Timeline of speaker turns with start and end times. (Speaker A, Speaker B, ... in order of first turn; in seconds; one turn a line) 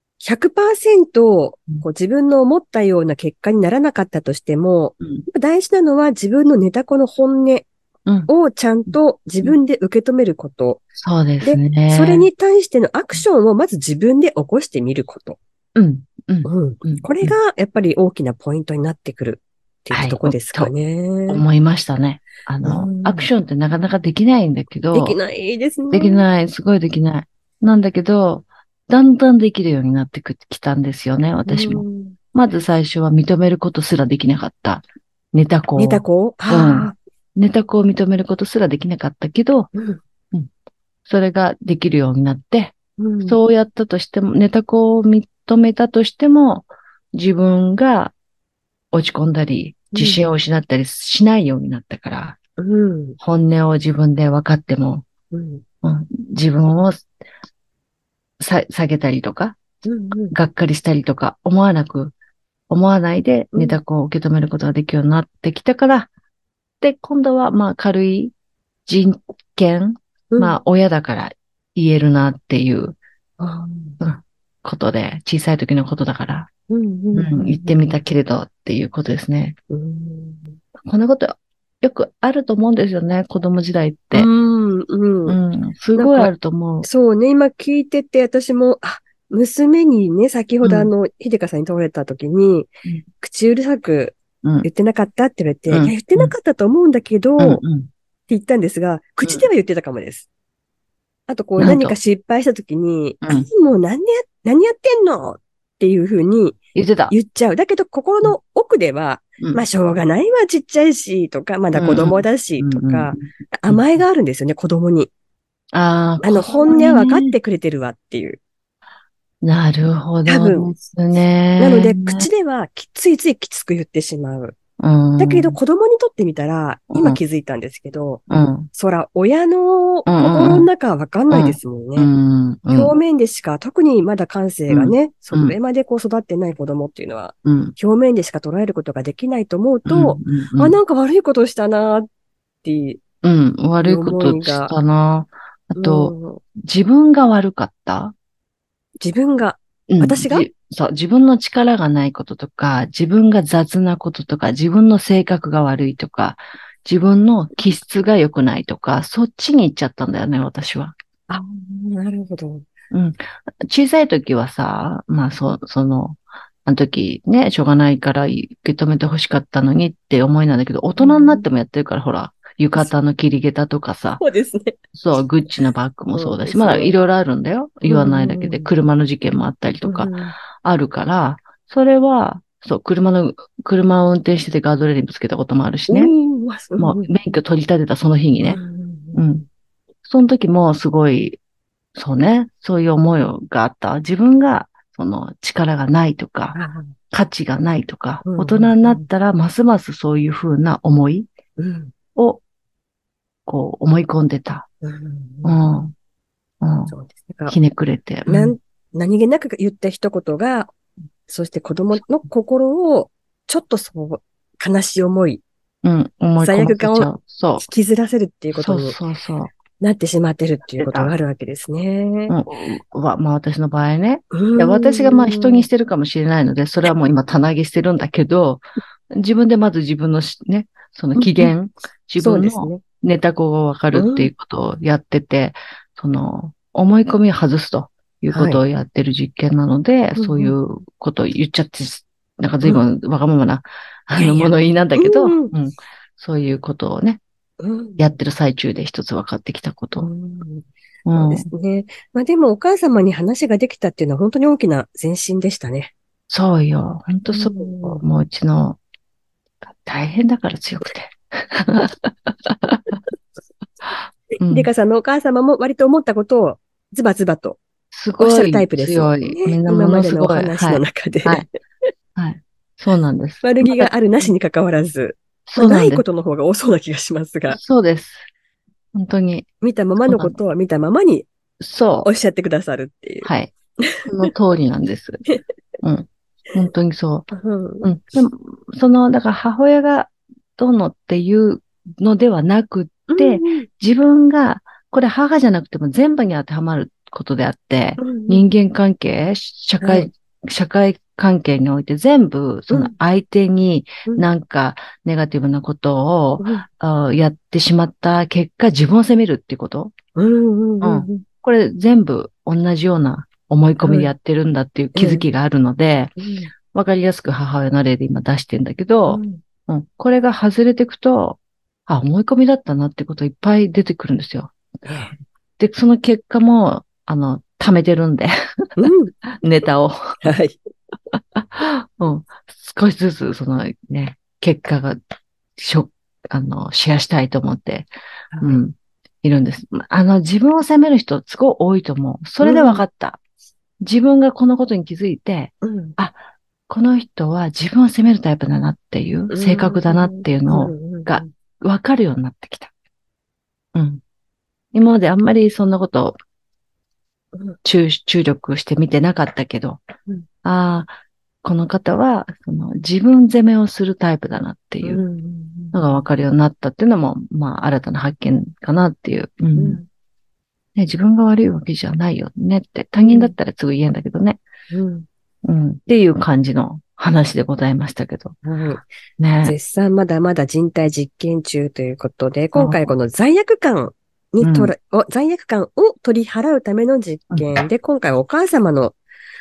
Speaker A: 0.2-7.7
Speaker B: 5.0-5.3
Speaker A: 8.3-10.8
Speaker B: 8.9-9.6
Speaker B: 10.9-12.3
Speaker A: 11.4-15.4
Speaker B: 15.8-17.4
Speaker A: 16.4-21.4
Speaker B: 19.9-20.7
Speaker B: 21.3-25.2
Speaker A: 22.6-23.3
Speaker A: 24.9-26.2
Speaker B: 25.9-39.7
Speaker A: 31.5-32.2
Speaker A: 35.8-37.0
Speaker A: 39.7-40.0
Speaker B: 41.1-48.1
Speaker A: 43.0-43.4
Speaker B: 48.9-52.4
Speaker A: 49.9-50.2
Speaker A: 52.6-53.2
Speaker B: 53.2-55.1
Speaker A: 55.3-55.6
Speaker B: 55.8-57.1
Speaker B: 58.4-59.6
Speaker A: 59.9-60.4
Speaker B: 60.3-62.1
Speaker B: 62.7-66.1
Speaker A: 63.5-63.8
Speaker B: 66.8-68.3
Speaker B: 68.9-73.0
Speaker A: 70.3-70.6
Speaker A: 73.4-74.0
Speaker B: 74.0-76.5
Speaker A: 76.7-77.8
Speaker B: 77.2-79.6
Speaker A: 79.7-80.6
Speaker B: 80.8-84.3
Speaker A: 84.1-85.4
Speaker B: 85.3-86.9
Speaker A: 86.0-86.3
Speaker A: 86.8-97.6
Speaker B: 90.6-90.9
Speaker B: 94.4-94.7
Speaker B: 95.7-96.3
Speaker B: 97.4-97.9
Speaker A: 98.3-100.3
Speaker A: 101.3-106.6
Speaker B: 101.6-102.0
Speaker B: 103.2-103.5
Speaker B: 106.8-107.2
Speaker A: 107.1-115.1
Speaker B: 111.7-114.0
Speaker B: 115.7-117.3
Speaker A: 116.2-118.4
Speaker B: 119.4-122.3
Speaker A: 120.3-120.7
Speaker A: 121.6-124.6
Speaker B: 124.8-125.6
Speaker A: 125.2-132.1
Speaker B: 126.9-127.2
Speaker B: 128.3-128.7
Speaker B: 130.1-130.7
Speaker B: 131.3-133.0
Speaker A: 132.7-142.1
Speaker B: 134.7-135.6
Speaker B: 137.4-137.8
Speaker B: 139.9-140.8
Speaker A: 142.6-143.0
Speaker B: 143.2-148.2
Speaker A: 143.8-144.7
Speaker A: 145.8-146.4
Speaker A: 149.0-150.5
Speaker B: 149.9-160.9
Speaker A: 161.3-162.7
Speaker B: 162.9-174.2
Speaker A: 171.0-171.5
Speaker A: 174.2-174.8
Speaker B: 174.9-186.1
Speaker A: 176.1-176.9
Speaker A: 177.9-178.7
Speaker A: 179.8-180.4
Speaker A: 185.9-187.1
Speaker B: 186.8-188.6
Speaker A: 188.4-189.4
Speaker B: 189.2-189.4
Speaker B: 190.0-191.4
Speaker B: 191.9-196.6
Speaker A: 196.6-196.9
Speaker B: 197.1-201.3
Speaker A: 198.2-199.1
Speaker A: 201.6-201.9
Speaker B: 202.2-202.4
Speaker B: 203.5-204.7
Speaker A: 204.8-205.7
Speaker B: 205.4-205.9
Speaker B: 206.6-206.9
Speaker A: 206.9-207.6
Speaker B: 207.5-208.6
Speaker A: 208.3-210.7
Speaker A: 211.3-215.4
Speaker B: 215.8-217.7
Speaker A: 216.4-219.0
Speaker B: 218.5-219.5
Speaker A: 219.8-222.4
Speaker B: 220.8-221.1
Speaker B: 222.3-247.2
Speaker A: 224.3-225.7
Speaker A: 231.2-231.5
Speaker A: 232.2-232.8
Speaker A: 233.9-234.3
Speaker A: 238.3-238.6
Speaker A: 240.2-240.6
Speaker A: 244.2-245.5
Speaker A: 247.6-248.0
Speaker B: 248.0-250.1
Speaker A: 250.0-255.9
Speaker B: 251.1-251.5
Speaker B: 256.3-258.8
Speaker A: 257.3-258.0
Speaker B: 259.6-263.0
Speaker A: 264.4-267.6
Speaker B: 264.4-264.7
Speaker B: 267.9-271.5
Speaker A: 268.2-271.5
Speaker B: 272.2-274.3
Speaker A: 273.4-277.6
Speaker B: 275.5-276.0
Speaker B: 277.5-278.3
Speaker B: 278.9-279.5
Speaker A: 279.6-281.3
Speaker B: 280.1-280.4
Speaker B: 281.6-282.1
Speaker A: 282.0-283.3
Speaker B: 283.2-283.5
Speaker A: 283.8-284.3
Speaker B: 284.1-285.2
Speaker B: 285.8-287.3
Speaker A: 287.3-287.9
Speaker B: 287.8-309.9
Speaker A: 293.1-293.7
Speaker A: 298.0-298.5
Speaker A: 299.8-300.1
Speaker A: 302.7-302.9
Speaker A: 306.4-306.7
Speaker A: 310.2-311.2
Speaker B: 310.8-316.2
Speaker A: 313.8-314.1
Speaker A: 314.9-315.2
Speaker A: 316.2-316.5
Speaker B: 316.7-324.6
Speaker A: 319.1-319.4
Speaker A: 324.9-325.1
Speaker B: 325.6-328.9
Speaker A: 328.8-329.1
Speaker B: 329.4-330.2
Speaker A: 330.2-330.6
Speaker B: 331.1-335.0
Speaker B: 335.6-343.2
Speaker A: 338.3-338.6
Speaker A: 342.4-342.8
Speaker B: 343.8-346.2
Speaker A: 345.6-346.0
Speaker B: 346.7-352.7
Speaker A: 349.3-351.3
Speaker B: 353.7-354.0
Speaker B: 354.7-356.2
Speaker B: 357.6-359.8
Speaker B: 360.4-360.9
Speaker B: 361.4-365.0
Speaker A: 364.8-366.0
Speaker B: 365.7-369.8
Speaker A: 369.6-369.9
Speaker B: 370.8-374.4
Speaker A: 373.0-373.4
Speaker A: 374.7-375.1
Speaker B: 375.4-378.4
Speaker A: 378.4-378.9
Speaker B: 379.2-379.6
Speaker A: 379.4-389.0
Speaker B: 382.6-382.9
Speaker B: 384.4-384.7